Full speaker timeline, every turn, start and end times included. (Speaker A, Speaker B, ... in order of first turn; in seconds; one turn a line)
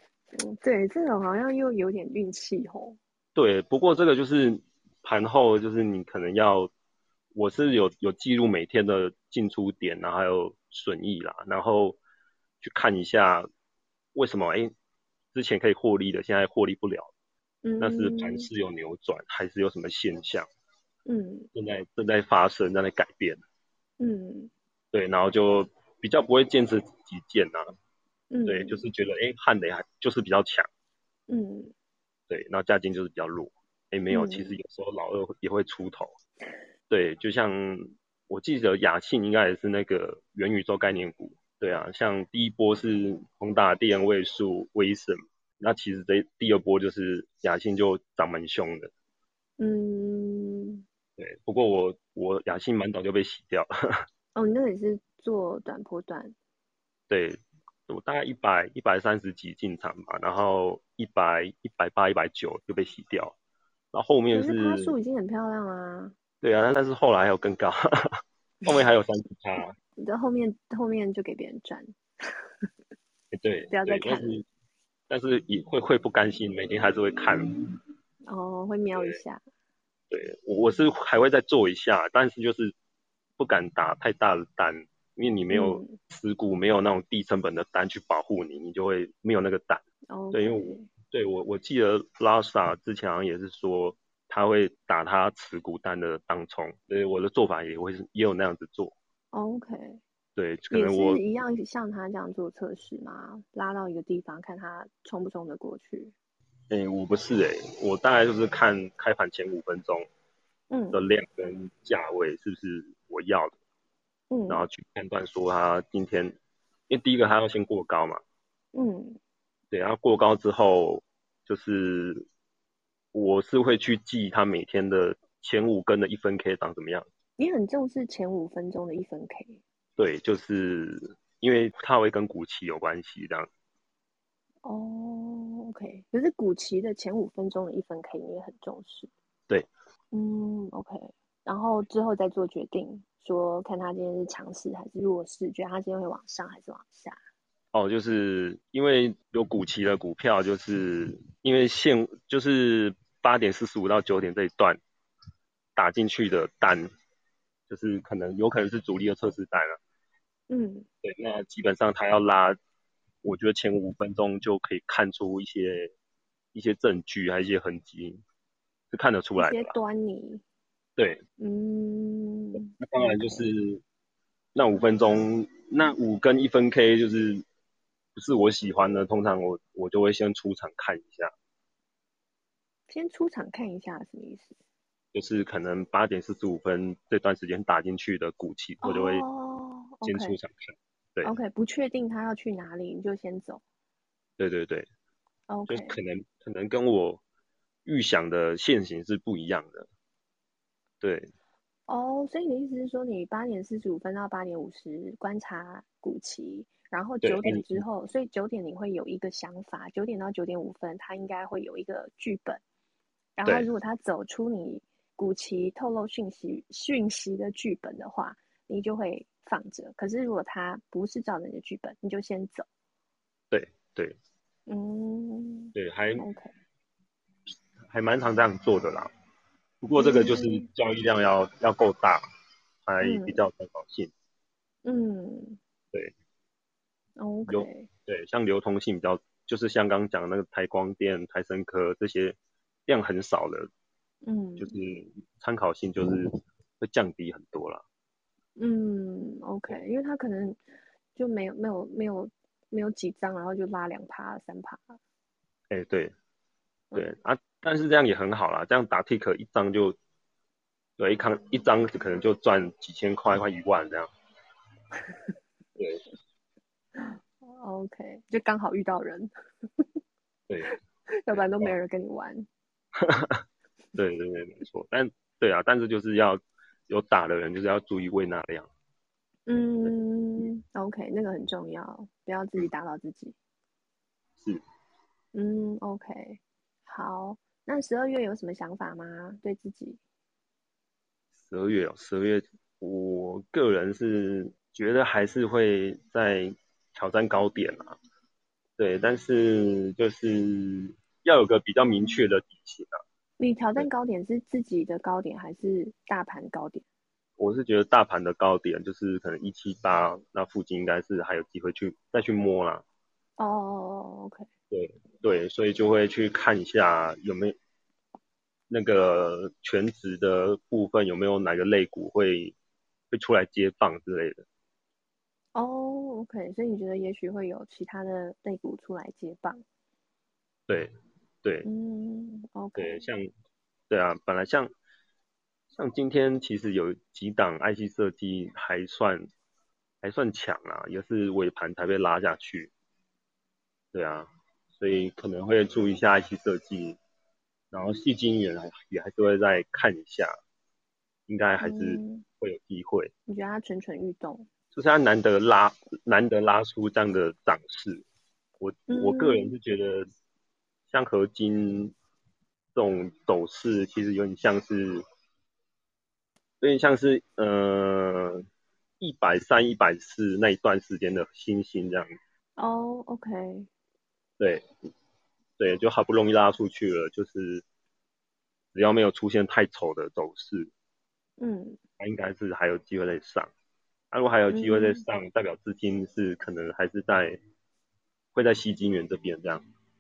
Speaker A: 0.4-3.0
Speaker B: 3.4-6.7
Speaker B: 7.3-12.0
Speaker B: 12.6-13.5
Speaker B: 14.2-14.7
Speaker B: 15.3-17.1
Speaker A: 17.6-18.5
Speaker B: 17.8-20.5
Speaker A: 21.1-21.5
Speaker B: 21.5-23.4
Speaker A: 24.0-24.5
Speaker B: 24.9-27.7
Speaker A: 28.3-28.8
Speaker B: 28.5-30.7
Speaker A: 31.3-31.7
Speaker B: 32.3-36.1
Speaker A: 34.1-34.6
Speaker B: 36.9-48.9
Speaker A: 49.6-50.8
Speaker B: 51.2-53.7
Speaker A: 54.4-56.4
Speaker B: 57.1-63.4
Speaker B: 63.9-65.0
Speaker A: 64.3-66.2
Speaker B: 66.4-69.8
Speaker A: 70.0-71.9
Speaker B: 73.3-74.5
Speaker A: 73.7-74.4
Speaker B: 75.1-77.4
Speaker A: 78.3-79.4
Speaker B: 79.0-79.2
Speaker B: 80.1-82.7
Speaker B: 83.4-98.9
Speaker A: 85.5-86.0
Speaker A: 90.1-90.9
Speaker A: 99.3-100.0
Speaker B: 100.4-101.2
Speaker A: 100.7-106.1
Speaker B: 106.7-110.1
Speaker A: 110.7-111.0
Speaker B: 110.9-113.5
Speaker A: 114.3-114.7
Speaker B: 114.5-116.4
Speaker B: 116.9-118.2
Speaker A: 118.7-119.2
Speaker B: 119.7-122.3
Speaker B: 123.1-127.1
Speaker A: 127.4-129.6
Speaker B: 130.0-133.5
Speaker A: 134.6-139.1
Speaker A: 140.1-147.2
Speaker B: 147.7-154.8
Speaker B: 155.8-156.9
Speaker B: 157.7-159.8
Speaker A: 160.5-160.9
Speaker B: 161.0-162.6
Speaker B: 163.2-165.9
Speaker B: 166.5-168.2
Speaker B: 168.9-169.8
Speaker A: 169.4-170.4
Speaker A: 171.4-173.5
Speaker B: 172.6-173.8
Speaker B: 174.6-177.4
Speaker B: 178.2-181.3
Speaker A: 182.9-184.6
Speaker B: 185.1-189.2
Speaker A: 188.8-190.4
Speaker B: 190.0-191.3
Speaker A: 191.2-193.6
Speaker B: 194.4-194.9
Speaker A: 195.5-196.0
Speaker B: 195.7-197.2
Speaker B: 197.8-199.9
Speaker B: 201.0-201.3
Speaker A: 201.9-212.6
Speaker B: 207.2-207.8
Speaker A: 213.4-222.7
Speaker B: 223.5-224.2
Speaker A: 224.7-226.5
Speaker B: 225.8-226.3
Speaker B: 227.9-229.1
Speaker B: 229.8-232.2
Speaker A: 230.0-230.7
Speaker B: 232.9-234.1
Speaker A: 233.0-233.4
Speaker A: 234.8-235.6
Speaker A: 237.2-237.9
Speaker B: 237.5-242.4
Speaker B: 242.9-243.7
Speaker A: 244.2-244.8
Speaker B: 244.6-247.8
Speaker A: 248.6-250.6
Speaker A: 251.2-255.0
Speaker B: 255.7-256.1
Speaker B: 256.9-260.0
Speaker B: 261.0-264.1
Speaker B: 265.8-266.0
Speaker A: 266.9-269.3
Speaker B: 270.5-270.8
Speaker A: 270.7-272.5
Speaker B: 271.3-271.8
Speaker B: 273.0-273.4
Speaker B: 274.0-278.7
Speaker A: 279.5-283.4
Speaker A: 285.3-290.0
Speaker B: 291.5-298.0
Speaker B: 298.8-303.0
Speaker A: 303.4-306.8
Speaker B: 307.4-312.8
Speaker A: 313.4-314.5
Speaker B: 314.7-317.6
Speaker B: 318.7-322.6
Speaker B: 323.1-324.4
Speaker A: 325.6-329.6
Speaker A: 331.6-333.0
Speaker B: 332.8-333.3
Speaker B: 333.9-334.7
Speaker B: 335.7-339.3
Speaker B: 340.0-342.7
Speaker B: 343.9-347.0
Speaker B: 347.7-350.3
Speaker B: 351.3-353.1
Speaker A: 351.6-352.2
Speaker A: 353.3-354.5
Speaker B: 354.7-358.0
Speaker B: 358.6-360.1
Speaker A: 358.9-359.6
Speaker B: 360.9-361.9
Speaker B: 362.8-365.0
Speaker B: 366.6-368.4
Speaker B: 369.0-372.1
Speaker A: 372.6-373.7
Speaker B: 374.4-374.6
Speaker B: 375.6-377.6
Speaker B: 378.7-380.7
Speaker A: 381.4-381.8
Speaker B: 382.0-383.5
Speaker B: 384.1-387.4
Speaker A: 384.5-385.1
Speaker B: 388.3-389.6